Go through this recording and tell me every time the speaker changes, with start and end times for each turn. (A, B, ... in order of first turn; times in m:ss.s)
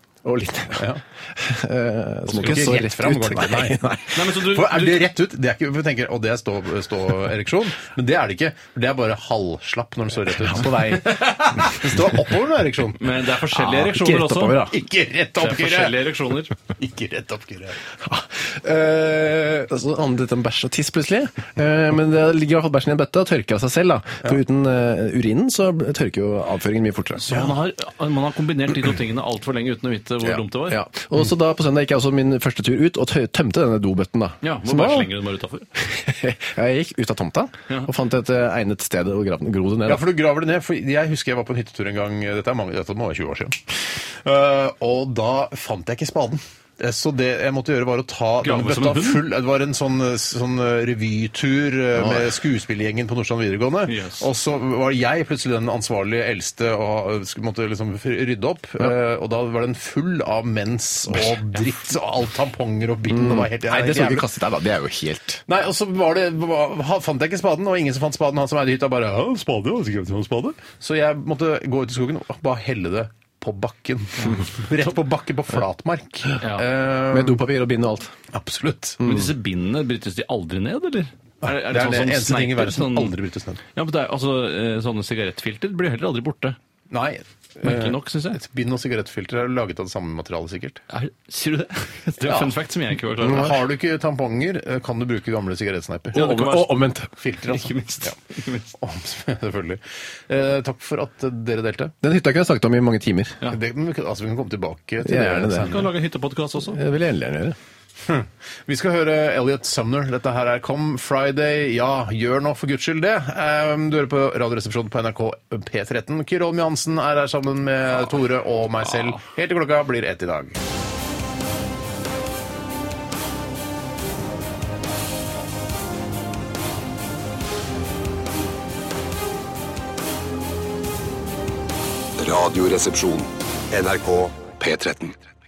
0:00.2-0:04.2 A
0:00.8-0:01.0 B
0:02.3-0:13.1 B
0:02.3-0:02.7 C
0:04.1-0:05.0 C
0:10.4-0:11.2 A
0:11.0-0:11.8 C
0:13.0-0:14.7 C
0:13.5-0:14.8 A
0:14.7-0:16.0 B
0:15.4-0:16.6 C
0:16.7-0:17.8 B
0:18.0-0:27.3 A
0:27.2-0:30.8 C
0:30.2-0:35.1 A
0:34.4-0:35.7 C
0:35.8-0:40.0 A
0:39.9-1:04.3 B
0:48.4-0:49.3 C
0:53.9-0:54.3 C
1:03.1-1:05.4 A
1:05.5-1:17.4 B
1:16.4-1:16.7 C
1:17.1-1:18.1 A
1:18.3-1:19.1 B
1:19.0-1:23.1 C
1:19.0-1:19.3 A
1:21.4-1:23.6 B
1:23.8-1:26.6 C
1:26.9-1:30.8 B
1:27.6-1:28.4 C
1:30.9-1:33.6 C
1:32.2-1:32.5 B
1:33.2-1:36.3 B
1:36.1-1:37.1 A
1:36.1-1:36.8 C
1:37.2-1:38.2 B
1:37.5-1:38.7 C
1:38.8-1:41.9 B
1:42.0-1:43.4 A
1:43.5-1:45.9 B
1:45.0-1:45.8 A
1:45.6-1:46.8 C
1:46.7-1:47.6 A
1:48.0-2:00.6 B
2:12.2-2:15.2 D